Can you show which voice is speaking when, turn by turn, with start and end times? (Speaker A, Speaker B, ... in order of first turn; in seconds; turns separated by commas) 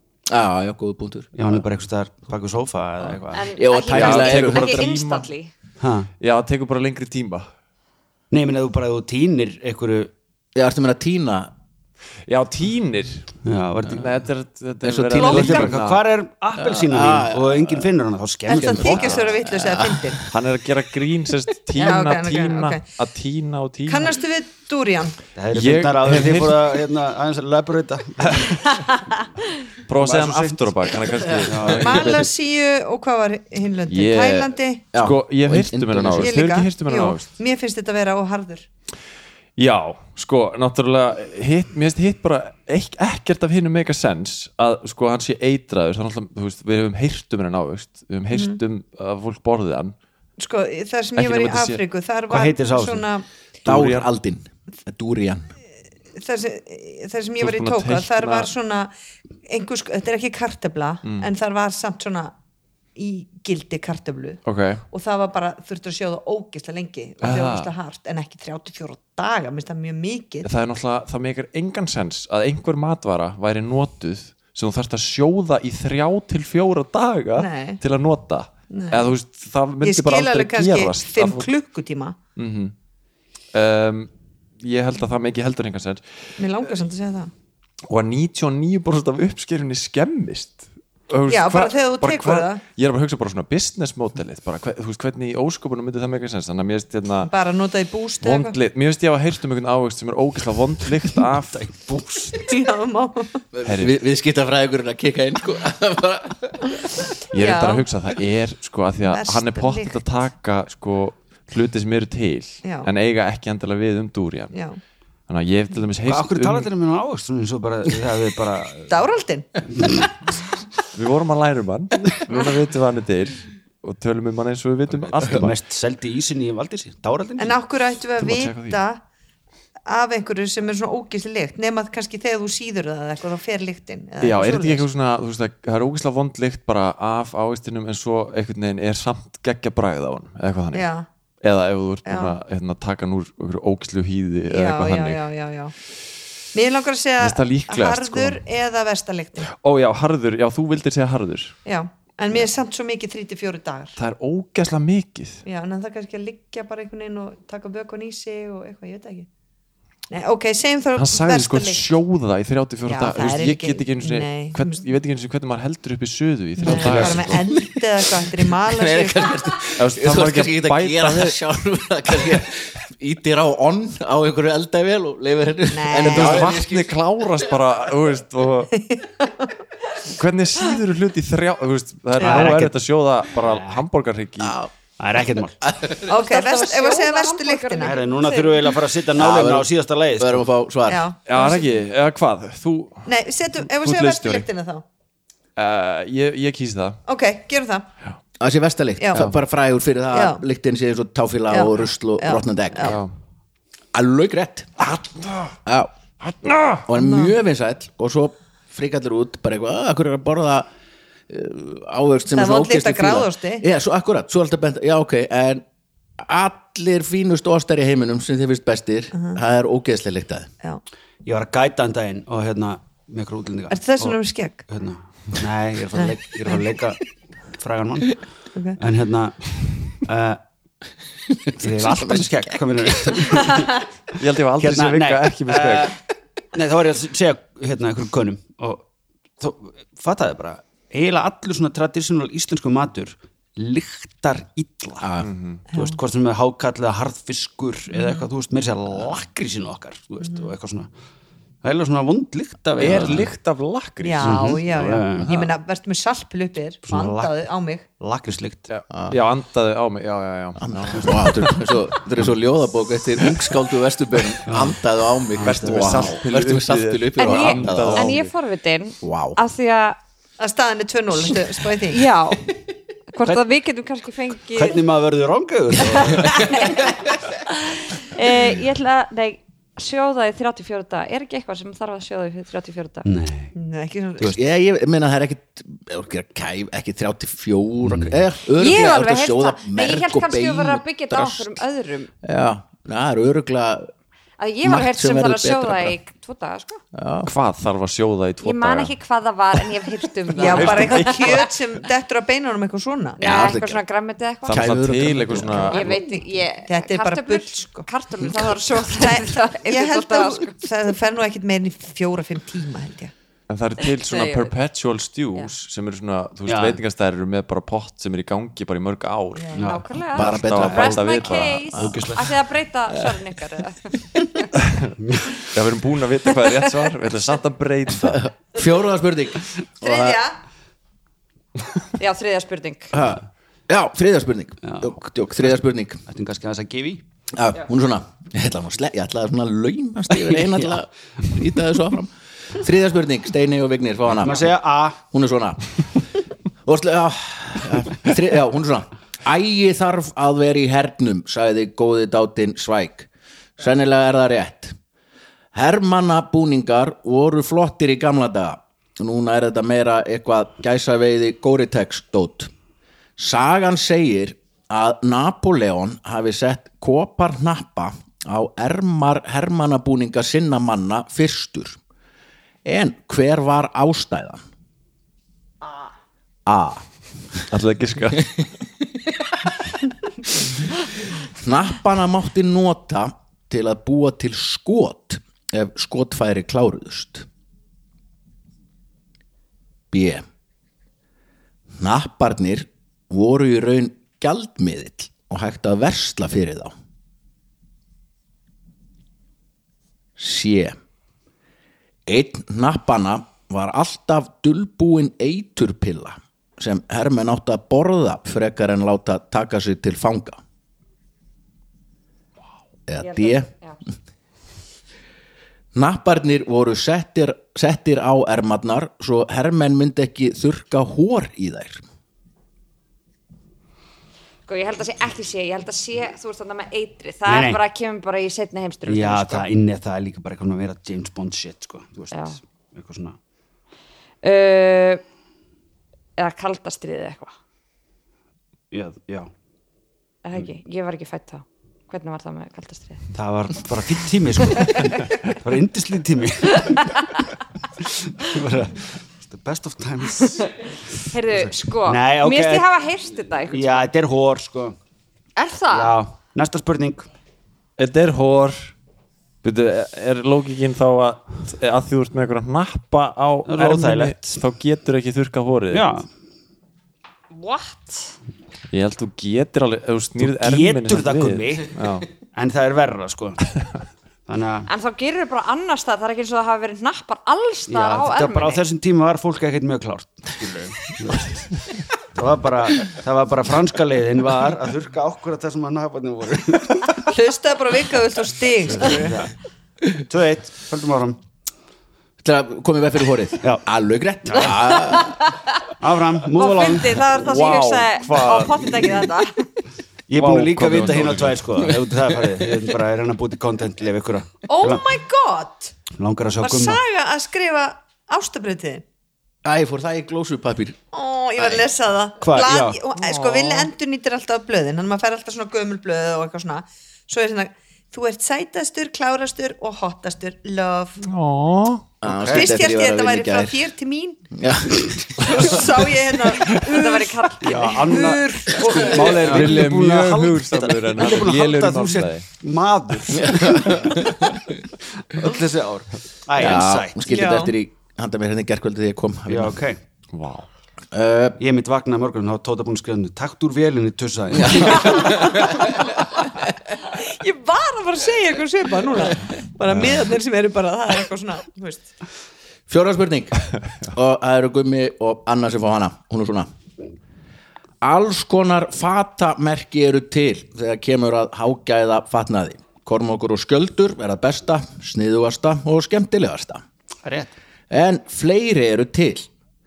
Speaker A: 0.3-1.6, Speaker B: 1.3-3.5, Speaker C: 3.3-5.5, Speaker A: 3.5-5.0, Speaker D: 3.9-5.3, Speaker B: 5.8-6.1, Speaker D: 6.2-7.5, Speaker B: 8.3-10.1, Speaker A: 10.5-11.5, Speaker D: 12.3-13.3, Speaker B: 13.4-14.2, Speaker D: 13.9-16.0, Speaker A: 14.8-15.7, Speaker E: 15.2-15.7, Speaker B: 15.2-19.2, Speaker A: 16.6-17.9, Speaker E: 18.5-20.2, Speaker A: 18.5-20.3, Speaker D: 18.9-19.2, Speaker D: 20.3-24.2, Speaker E: 21.8-22.8, Speaker E: 23.9-25.2, Speaker B: 25.4-29.0, Speaker D: 25.5-26.7, Speaker D: 29.9-32.2, Speaker B: 29.9-30.7, Speaker A: 31.2-31.7, Speaker B: 31.4-32.1, Speaker E: 31.8-34.8, Speaker D: 33.9-37.3, Speaker A: 34.9-36.3, Speaker E: 36.2-38.6, Speaker D: 39.6-49.9, Speaker E: 48.3-48.6, Speaker E: 50.4-53.2, Speaker D: 51.1-51.8, Speaker B: 52.3-53.1, Speaker A: 53.6-55.5, Speaker D: 53.6-54.1, Speaker E: 56.1-58.9, Speaker D: 57.4-58.5, Speaker E: 59.5-62.3, Speaker D: 61.0-61.3, Speaker E: 63.0-70.5, Speaker D: 64.5-64.8, Speaker D: 67.2-67.7, Speaker D: 70.4-81.5, Speaker E: 77.4-77.8, Speaker E: 78.7-79.1, Speaker E: 79.8-82.2, Speaker D: 82.3-82.7, Speaker D: 83.5-84.1, Speaker D: 84.6-86.0, Speaker E: 86.4-87.3, Speaker D: 87.9-97.3, Speaker E: 91.3-92.6, Speaker E: 97.2-98.5, Speaker D: 98.2-101.7, Speaker B: 101.5-102.5, Speaker E: 102.5-103.4, Speaker A: 103.5-106.8, Speaker D: 103.6-103.9, Speaker D: 107.3-114.5, Speaker E: 107.3-107.8, Speaker E: 109.1-110.0, Speaker E: 112.6-112.9, Speaker E: 114.5-114.8, Speaker D: 115.3-116.7, Speaker B: 116.0-118.9, Speaker E: 118.9-119.6, Speaker B: 119.8-120.0, Speaker D: 120.9-125.5, Speaker B: 125.2-127.6, Speaker E: 127.4-129.0, Speaker D: 128.2-128.8, Speaker E: 129.9-134.8, Speaker D: 134.2-140.9, Speaker E: 140.7-141.1, Speaker D: 141.4-145.2, Speaker E: 142.1-142.3, Speaker E: 144.5-145.7, Speaker E: 146.5-149.5, Speaker D: 147.2-148.4, Speaker D: 149.5-151.6, Speaker E: 151.6-153.9, Speaker D: 154.0-155.4, Speaker E: 155.4-159.3, Speaker E: 160.1-161.8, Speaker D: 160.9-167.4, Speaker E: 162.9-164.8, Speaker E: 166.6-169.4, Speaker A: 166.8-167.8, Speaker A: 168.3-177.0, Speaker D: 169.8-171.4, Speaker E: 175.7-176.5, Speaker D: 175.9-178.7, Speaker E: 178.8-179.5, Speaker D: 180.1-184.6, Speaker B: 182.2-182.7, Speaker E: 182.2-182.5, Speaker B: 183.3-183.8, Speaker A: 184.4-184.7, Speaker B: 185.0-185.6, Speaker A: 185.6-186.2, Speaker E: 186.1-187.9, Speaker C: 186.1-188.7, Speaker B: 187.8-190.4, Speaker A: 189.2-191.1, Speaker E: 190.9-191.7, Speaker D: 191.3-193.1, Speaker E: 193.1-194.8, Speaker D: 193.6-194.5, Speaker D: 195.6-197.0, Speaker E: 197.1-197.9, Speaker A: 198.4-203.0, Speaker E: 199.0-199.3, Speaker E: 200.1-200.4, Speaker E: 201.5-203.0, Speaker D: 202.8-203.1, Speaker A: 203.9-204.8, Speaker D: 204.8-205.5, Speaker A: 205.6-205.9, Speaker D: 206.2-206.8, Speaker A: 206.8-210.7, Speaker E: 207.0-207.3, Speaker A: 211.3-215.6, Speaker E: 212.3-213.6, Speaker A: 216.2-220.5, Speaker B: 221.2-227.0, Speaker E: 223.7-224.6, Speaker E: 226.0-226.6, Speaker B: 227.5-228.2, Speaker B: 228.8-230.4, Speaker A: 231.4-232.3, Speaker B: 231.6-233.8, Speaker D: 234.2-235.9, Speaker B: 234.6-236.0, Speaker B: 236.5-238.8, Speaker B: 239.4-245.1, Speaker A: 245.0-245.3, Speaker D: 245.2-245.6, Speaker E: 245.7-246.0, Speaker B: 245.7-250.9, Speaker E: 247.9-248.2, Speaker B: 251.6-253.3, Speaker D: 252.8-254.6, Speaker E: 254.0-257.9, Speaker B: 254.2-255.4, Speaker B: 256.9-257.3, Speaker B: 258.0-258.7, Speaker D: 258.7-261.3, Speaker A: 258.9-259.2, Speaker A: 260.6-268.2, Speaker B: 264.4-264.8, Speaker B: 265.3-266.1, Speaker D: 265.4-268.3, Speaker C: 267.2-270.0, Speaker A: 269.0-269.4, Speaker E: 270.4-272.1, Speaker C: 271.9-272.5, Speaker C: 273.1-274.8, Speaker B: 274.5-276.5, Speaker C: 276.0-283.1, Speaker B: 283.0-283.5, Speaker E: 283.6-284.4, Speaker A: 284.3-291.6, Speaker B: 287.8-288.2, Speaker C: 288.5-292.1, Speaker A: 292.2-293.9, Speaker C: 294.4-296.8, Speaker A: 294.6-295.9, Speaker A: 296.9-297.3, Speaker D: 297.2-298.9, Speaker C: 298.4-301.4, Speaker D: 300.3-301.5, Speaker E: 300.4-303.2, Speaker C: 303.2-304.7, Speaker A: 303.2-303.8, Speaker A: 304.4-305.9, Speaker D: 304.4-305.9, Speaker C: 305.6-310.6, Speaker E: 305.8-307.9, Speaker E: 308.9-313.1, Speaker D: 313.5-321.7, Speaker C: 314.0-314.5, Speaker B: 316.5-316.8, Speaker E: 319.3-319.6, Speaker B: 319.5-319.9, Speaker C: 319.6-324.5, Speaker A: 320.1-322.0, Speaker B: 320.6-321.2, Speaker B: 321.8-322.3, Speaker A: 322.9-323.2, Speaker B: 325.0-325.4, Speaker D: 325.5-328.2, Speaker A: 328.0-330.2, Speaker E: 329.8-330.4, Speaker C: 332.0-333.0, Speaker A: 332.9-336.0, Speaker B: 334.6-335.0, Speaker B: 336.1-337.0, Speaker A: 337.3-344.5, Speaker B: 340.3-340.6, Speaker B: 344.2-345.0, Speaker A: 345.0-345.6, Speaker A: 346.6-354.8, Speaker A: 355.5-362.5, Speaker A: 363.2-371.8, Speaker A: 372.6-374.4, Speaker A: 376.4-376.8, Speaker D: 377.5-378.4, Speaker A: 381.4-387.3, Speaker A: 389.9-390.2, Speaker A: 391.8-396.7, Speaker A: 400.2-400.8, Speaker A: 402.1-410.4, Speaker A: 412.9-413.5, Speaker C: 413.0-413.8, Speaker A: 415.7-421.8, Speaker C: 424.4-429.5, Speaker B: 427.2-427.6, Speaker B: 428.9-433.2, Speaker C: 432.1-432.4, Speaker C: 434.2-435.0, Speaker C: 436.2-437.3, Speaker B: 438.7-439.3, Speaker C: 440.2-443.0, Speaker B: 443.1-446.9, Speaker C: 444.5-445.1, Speaker C: 446.6-447.0, Speaker B: 447.8-450.8, Speaker C: 451.0-453.9, Speaker B: 451.3-452.7, Speaker B: 453.5-454.8, Speaker C: 455.4-456.0, Speaker B: 455.7-457.1, Speaker D: 457.8-458.7, Speaker D: 459.4-465.9, Speaker B: 463.5-464.4, Speaker B: 465.7-466.1, Speaker C: 467.3-468.1, Speaker D: 468.7-472.1, Speaker B: 470.2-473.4, Speaker B: 474.3-474.7, Speaker C: 474.7-478.6, Speaker B: 477.7-481.3, Speaker B: 482.0-487.0, Speaker E: 487.0-489.1, Speaker B: 488.7-489.3, Speaker B: 490.1-491.2, Speaker A: 492.2-495.3, Speaker B: 494.2-494.6, Speaker C: 494.8-495.5, Speaker B: 495.8-497.0, Speaker C: 496.3-499.4, Speaker D: 497.1-498.9, Speaker B: 500.1-504.8, Speaker D: 500.1-501.7, Speaker E: 504.5-505.7, Speaker B: 505.9-506.8, Speaker E: 506.4-508.8, Speaker A: 509.4-510.8, Speaker E: 510.9-521.0, Speaker A: 511.4-511.7, Speaker B: 512.2-512.8, Speaker D: 513.0-513.7, Speaker D: 521.0-521.9, Speaker A: 522.0-523.6, Speaker B: 522.0-522.5, Speaker E: 522.3-524.3, Speaker A: 524.3-525.8, Speaker E: 525.2-529.2, Speaker C: 526.6-528.2, Speaker B: 527.4-534.1, Speaker A: 529.2-529.5, Speaker D: 529.2-532.2, Speaker A: 533.1-534.5, Speaker B: 535.0-537.0, Speaker A: 536.4-539.5, Speaker E: 537.0-537.5, Speaker B: 539.3-539.8, Speaker D: 540.1-540.5, Speaker A: 540.9-541.4, Speaker B: 541.4-545.2, Speaker A: 544.4-545.8, Speaker E: 545.1-545.7, Speaker E: 546.8-551.9, Speaker A: 552.7-556.5, Speaker A: 557.8-566.6, Speaker B: 567.0-567.3, Speaker A: 567.7-569.3